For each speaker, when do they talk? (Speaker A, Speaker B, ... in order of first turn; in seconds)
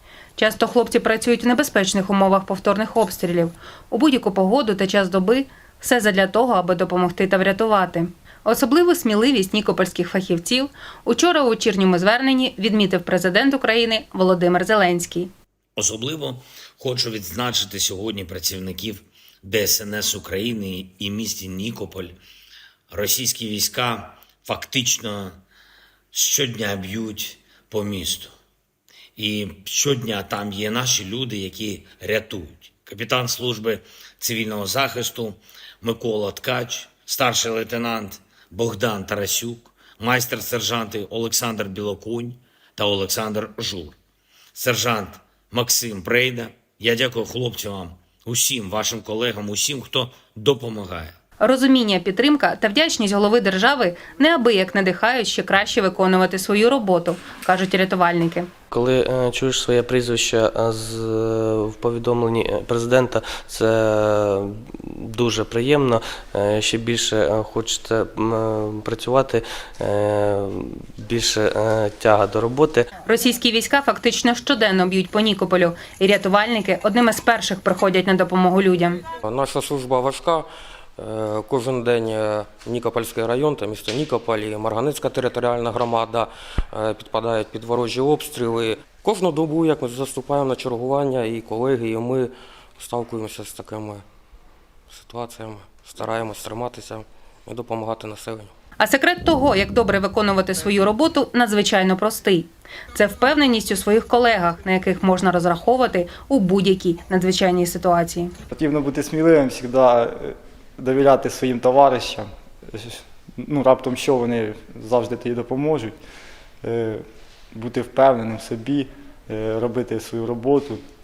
Speaker A: 0.4-15.3, 51.4-58.5, 73.0-79.0, 98.8-108.3
Speaker B: 15.8-22.1, 22.9-25.4, 26.1-28.3, 29.2-44.0, 44.5-51.1
Speaker C: 58.7-72.9
Speaker D: 79.2-94.0, 94.9-98.5
Speaker E: 108.5-116.0, 116.6-117.0, 117.5-120.8